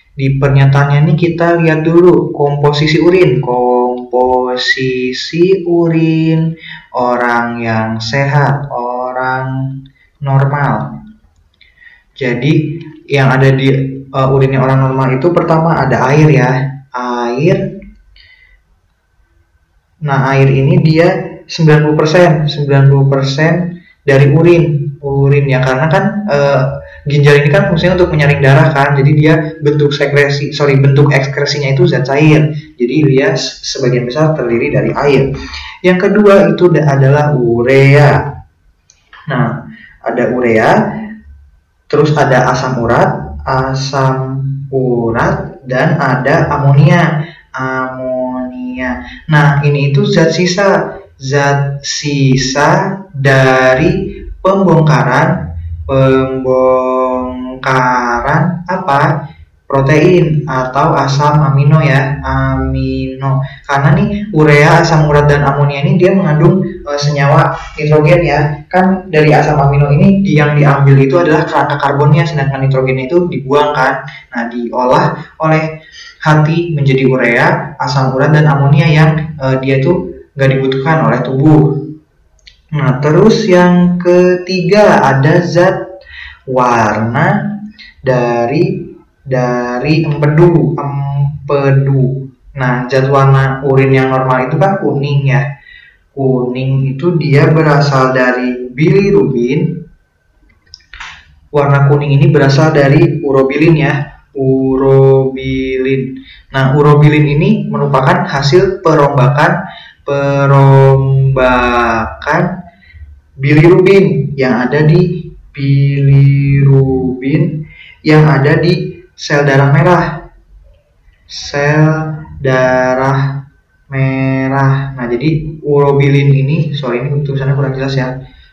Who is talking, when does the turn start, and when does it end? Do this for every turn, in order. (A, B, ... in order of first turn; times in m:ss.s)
0:00.2-0:06.4 A
0:07.0-0:09.5 A
0:10.2-0:10.9 A
0:12.2-0:12.6 A
0:13.1-0:17.6 A
0:20.0-0:35.2 A
0:35.8-0:38.1 A
0:40.0-0:40.7 A
0:41.9-0:50.7 A
0:51.2-0:55.3 A
0:55.9-0:59.1 A
0:59.7-1:15.6 A
1:16.2-1:21.6 A
1:22.7-1:25.8 A
1:26.5-1:27.3 A
1:28.0-1:28.7 A
1:29.3-1:35.4 A
1:36.1-1:39.7 A
1:41.5-1:49.5 A
1:50.0-1:52.5 A
1:53.4-2:00.1 A
2:01.3-2:03.3 A
2:03.9-2:08.1 A